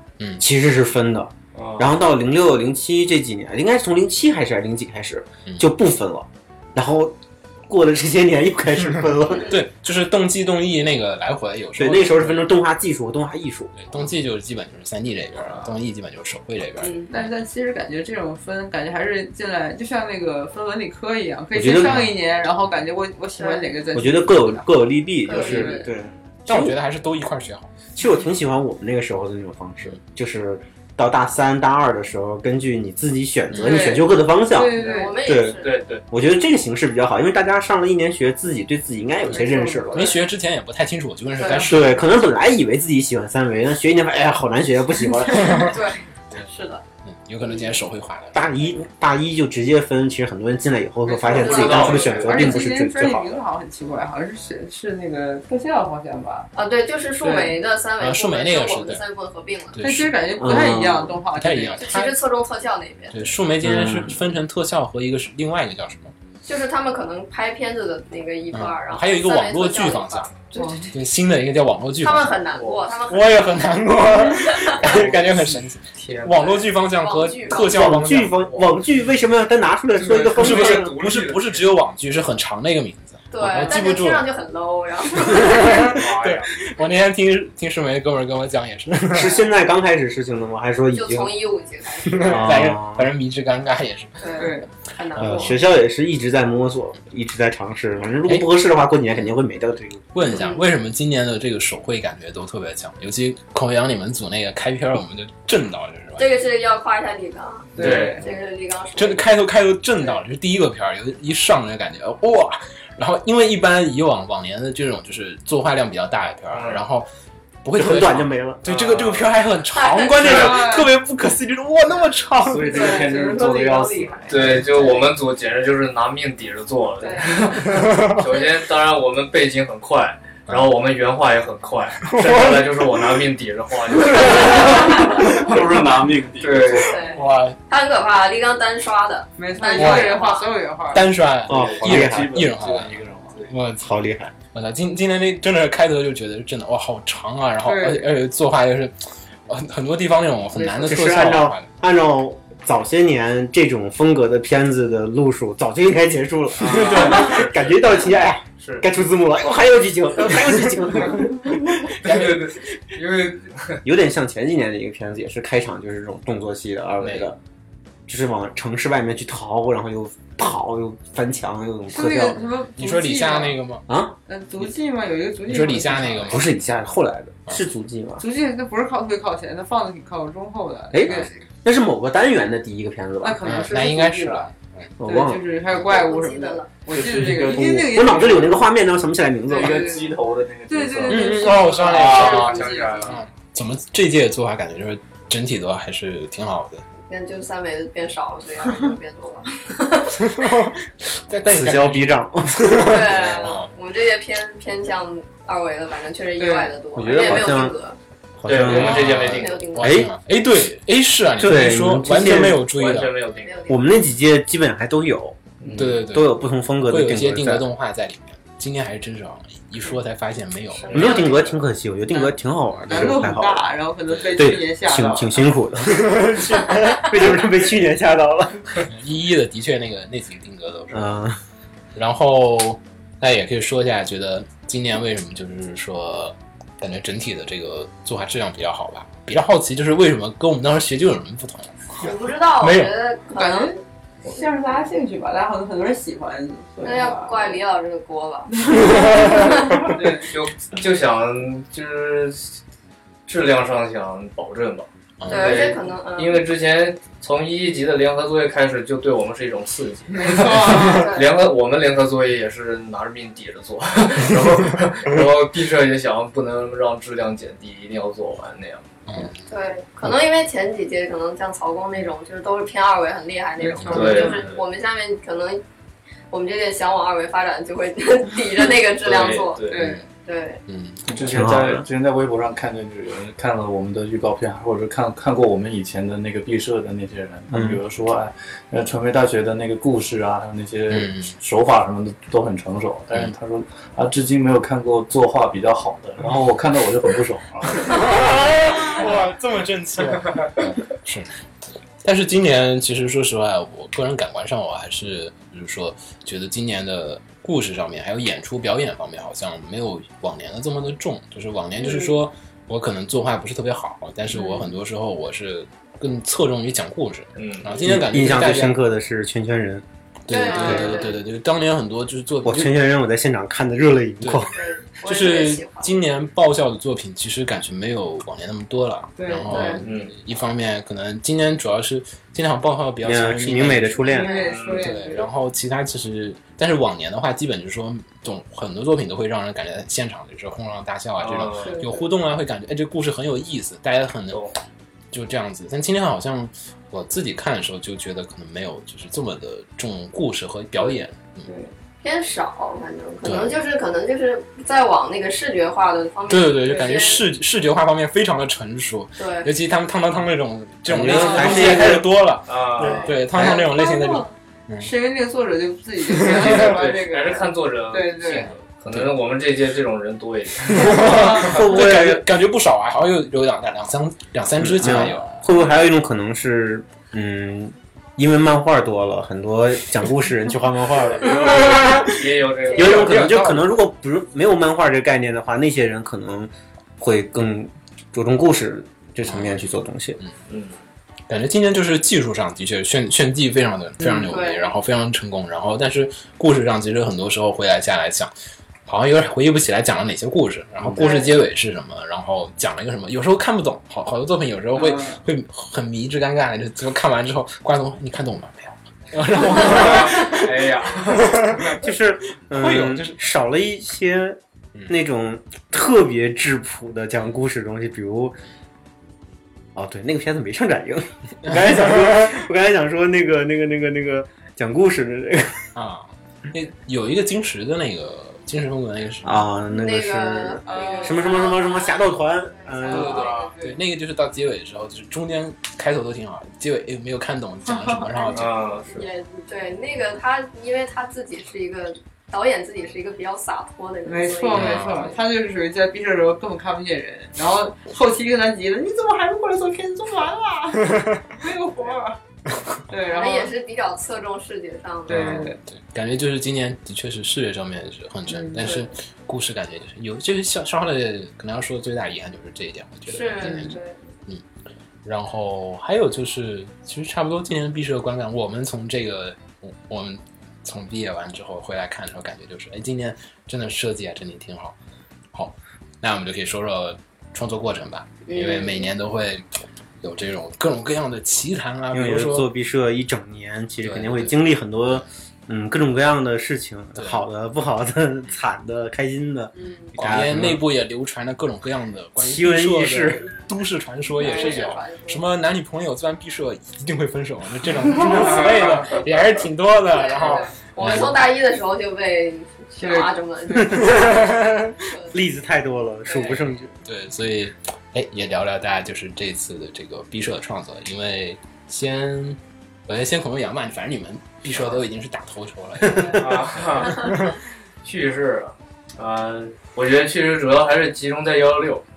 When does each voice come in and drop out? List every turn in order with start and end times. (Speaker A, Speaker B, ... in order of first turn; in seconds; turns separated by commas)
Speaker A: 0.2-0.5, Speaker B: 0.4-9.5, Speaker C: 1.6-2.0, Speaker A: 9.4-12.5, Speaker B: 11.8-14.0, Speaker A: 13.8-17.3, Speaker D: 16.8-17.1, Speaker E: 17.1-24.7, Speaker B: 21.5-22.1, Speaker D: 23.4-23.7, Speaker B: 23.9-26.8, Speaker D: 25.3-25.9, Speaker E: 25.3-25.9, Speaker A: 26.5-27.7, Speaker B: 27.9-40.1, Speaker A: 33.5-33.9, Speaker E: 33.6-35.2, Speaker D: 34.8-35.8, Speaker C: 35.6-36.0, Speaker E: 39.3-40.2, Speaker A: 40.0-42.4, Speaker D: 41.4-41.7, Speaker B: 41.6-45.8, Speaker D: 45.5-46.8, Speaker A: 47.0-48.5, Speaker B: 48.3-53.4, Speaker C: 51.2-52.5, Speaker D: 51.2-52.2, Speaker E: 52.2-56.5, Speaker D: 56.5-59.8, Speaker E: 57.2-57.6, Speaker A: 58.0-59.0, Speaker A: 59.7-60.1, Speaker E: 59.8-61.9, Speaker B: 60.4-61.2, Speaker A: 61.3-62.2, Speaker D: 61.8-63.2, Speaker A: 63.1-66.1, Speaker B: 63.6-64.2, Speaker D: 66.4-70.9, Speaker A: 68.5-70.4, Speaker E: 70.5-70.9, Speaker A: 70.9-72.4, Speaker D: 72.0-73.5, Speaker C: 72.6-72.9, Speaker A: 73.1-78.5, Speaker D: 74.3-74.8, Speaker C: 74.8-76.8, Speaker D: 76.9-77.8, Speaker B: 77.5-81.0, Speaker C: 78.3-78.8, Speaker C: 80.0-81.8, Speaker A: 80.3-84.3, Speaker D: 83.3-86.0, Speaker A: 85.2-89.4, Speaker C: 85.8-86.5, Speaker B: 89.1-91.4, Speaker D: 90.9-92.7, Speaker B: 92.1-93.1, Speaker A: 92.2-94.3, Speaker D: 94.2-95.6, Speaker E: 94.4-94.7, Speaker B: 95.2-100.4, Speaker A: 100.1-106.4, Speaker D: 100.3-100.7, Speaker D: 106.2-109.4, Speaker E: 107.8-108.2, Speaker C: 107.8-108.3, Speaker A: 109.0-117.1, Speaker C: 116.5-116.8, Speaker A: 117.6-122.8, Speaker B: 117.7-118.6, Speaker C: 118.7-119.3, Speaker D: 119.7-120.6, Speaker E: 120.2-120.9, Speaker F: 122.4-124.7, Speaker D: 122.7-124.6, Speaker E: 122.8-123.0, Speaker C: 124.3-135.2, Speaker D: 127.0-127.7, Speaker A: 132.1-132.8, Speaker F: 134.3-137.2, Speaker D: 134.4-135.1, Speaker C: 136.4-137.0, Speaker D: 136.8-140.5, Speaker A: 137.2-137.6, Speaker E: 139.4-141.2, Speaker A: 139.8-140.2, Speaker A: 140.9-143.9, Speaker F: 141.5-143.5, Speaker B: 141.5-142.5, Speaker B: 143.8-144.3, Speaker A: 144.5-148.9, Speaker E: 147.6-148.1, Speaker A: 149.5-151.7, Speaker E: 150.5-151.1, Speaker B: 150.8-162.6, Speaker C: 156.6-158.9, Speaker A: 156.7-157.4, Speaker C: 162.0-163.8, Speaker B: 163.8-167.4, Speaker C: 167.0-167.3, Speaker B: 168.1-172.4, Speaker E: 171.9-173.6, Speaker A: 172.3-173.8, Speaker B: 173.9-174.2, Speaker E: 174.3-176.4, Speaker A: 175.4-176.5, Speaker B: 176.3-178.2, Speaker E: 178.2-181.5, Speaker B: 180.9-183.6, Speaker A: 181.0-181.3, Speaker E: 183.2-184.5, Speaker A: 183.4-184.9, Speaker B: 185.0-185.5, Speaker E: 185.0-188.6, Speaker D: 185.8-186.7, Speaker F: 186.9-188.5, Speaker B: 187.4-189.9, Speaker F: 189.5-191.4, Speaker E: 189.6-190.2, Speaker E: 190.7-193.2, Speaker A: 191.1-196.8, Speaker C: 191.8-193.2, Speaker D: 197.1-200.4, Speaker A: 200.2-203.7, Speaker B: 201.4-203.2, Speaker D: 202.7-208.0, Speaker E: 206.4-206.8, Speaker F: 207.0-207.4, Speaker B: 207.0-207.8, Speaker B: 208.4-209.2, Speaker C: 208.5-209.6, Speaker A: 208.6-213.2, Speaker D: 209.2-210.1, Speaker B: 209.8-210.1, Speaker B: 211.4-212.7, Speaker C: 212.3-213.6, Speaker D: 213.4-213.9, Speaker B: 213.7-215.4, Speaker C: 215.6-216.1, Speaker A: 215.7-221.2, Speaker B: 216.0-217.7, Speaker D: 220.8-221.5, Speaker C: 220.9-221.3, Speaker B: 220.9-223.7, Speaker E: 222.8-225.4, Speaker A: 222.9-223.2, Speaker A: 224.1-224.6, Speaker B: 224.3-228.8, Speaker A: 228.9-231.2, Speaker B: 230.9-231.4, Speaker A: 231.9-242.9, Speaker D: 242.0-243.8, Speaker E: 243.3-247.6, Speaker D: 246.8-249.8, Speaker E: 248.5-249.9, Speaker C: 249.8-252.6, Speaker C: 253.3-269.3, Speaker A: 255.2-255.7, Speaker D: 255.3-256.5, Speaker E: 260.1-261.1, Speaker D: 260.7-261.4, Speaker A: 269.1-269.4, Speaker D: 269.5-275.6, Speaker E: 273.6-274.5, Speaker C: 273.9-274.6, Speaker D: 276.3-279.7, Speaker C: 279.0-279.8, Speaker E: 279.7-280.0, Speaker A: 279.8-280.0, Speaker D: 280.3-280.6, Speaker A: 280.7-281.4, Speaker F: 281.1-298.0, Speaker B: 281.2-281.9, Speaker B: 287.5-287.8, Speaker A: 290.9-291.3, Speaker A: 297.8-301.3, Speaker A: 302.0-318.8, Speaker E: 314.3-314.6, Speaker C: 317.4-317.7, Speaker B: 317.8-319.9, Speaker A: 320.3-322.9, Speaker D: 320.3-321.1, Speaker E: 320.5-321.0, Speaker B: 320.6-320.9, Speaker B: 322.4-324.6, Speaker A: 324.2-334.2, Speaker D: 324.5-326.0, Speaker E: 329.2-329.6, Speaker D: 329.5-329.8, Speaker C: 329.5-330.1, Speaker B: 333.0-334.3, Speaker E: 334.0-335.3, Speaker C: 334.2-335.0, Speaker A: 334.7-344.4, Speaker C: 341.2-341.9, Speaker E: 341.6-342.1, Speaker A: 345.1-351.5, Speaker E: 351.4-351.7, Speaker D: 352.0-357.2, Speaker A: 353.2-353.6, Speaker A: 356.3-364.9, Speaker E: 356.6-357.0, Speaker D: 359.2-359.5, Speaker B: 360.9-362.1, Speaker E: 361.1-361.9, Speaker C: 362.5-363.1, Speaker B: 362.8-363.6, Speaker E: 362.9-368.5, Speaker A: 366.1-366.8, Speaker C: 366.2-371.6, Speaker A: 368.3-369.2, Speaker A: 370.6-375.4, Speaker B: 370.9-372.3, Speaker B: 374.6-390.2, Speaker C: 375.5-375.8, Speaker C: 381.2-383.4, Speaker A: 382.8-383.7, Speaker A: 389.3-390.4, Speaker C: 390.5-390.8, Speaker A: 391.3-398.3, Speaker D: 394.2-394.7, Speaker A: 398.9-411.8, Speaker D: 401.0-401.3, Speaker E: 404.8-405.2, Speaker C: 409.6-411.5, Speaker B: 411.7-418.4, Speaker A: 412.5-413.2, Speaker B: 419.8-425.7, Speaker A: 421.5-422.1, Speaker A: 425.8-429.5, Speaker B: 429.2-433.3, Speaker D: 429.7-433.5, Speaker E: 430.6-431.7, Speaker E: 432.9-433.8, Speaker A: 432.9-438.5, Speaker C: 433.0-433.5, Speaker E: 437.6-438.5, Speaker C: 438.3-439.1, Speaker D: 438.9-445.2, Speaker E: 444.1-452.2, Speaker A: 444.5-445.1, Speaker E: 452.9-453.5, Speaker D: 453.1-455.4, Speaker E: 455.1-455.6, Speaker A: 455.1-464.4, Speaker E: 458.3-458.8, Speaker D: 463.1-464.0, Speaker E: 463.4-463.8, Speaker A: 465.0-474.8, Speaker A: 475.3-479.5, Speaker D: 478.3-478.9, Speaker A: 480.0-482.5, Speaker B: 481.9-490.6, Speaker A: 483.8-484.3, Speaker A: 487.0-487.2, Speaker D: 489.6-489.9, Speaker A: 489.9-501.2, Speaker B: 492.2-493.3, Speaker D: 494.2-495.2, Speaker E: 494.2-494.6, Speaker C: 498.1-499.1, Speaker D: 499.9-505.2, Speaker E: 502.8-503.8, Speaker B: 503.6-504.4, Speaker A: 503.9-504.7, Speaker B: 505.1-506.7, Speaker A: 506.2-517.4, Speaker C: 514.5-514.8, Speaker B: 515.8-516.2, Speaker C: 516.1-517.2, Speaker C: 517.8-521.8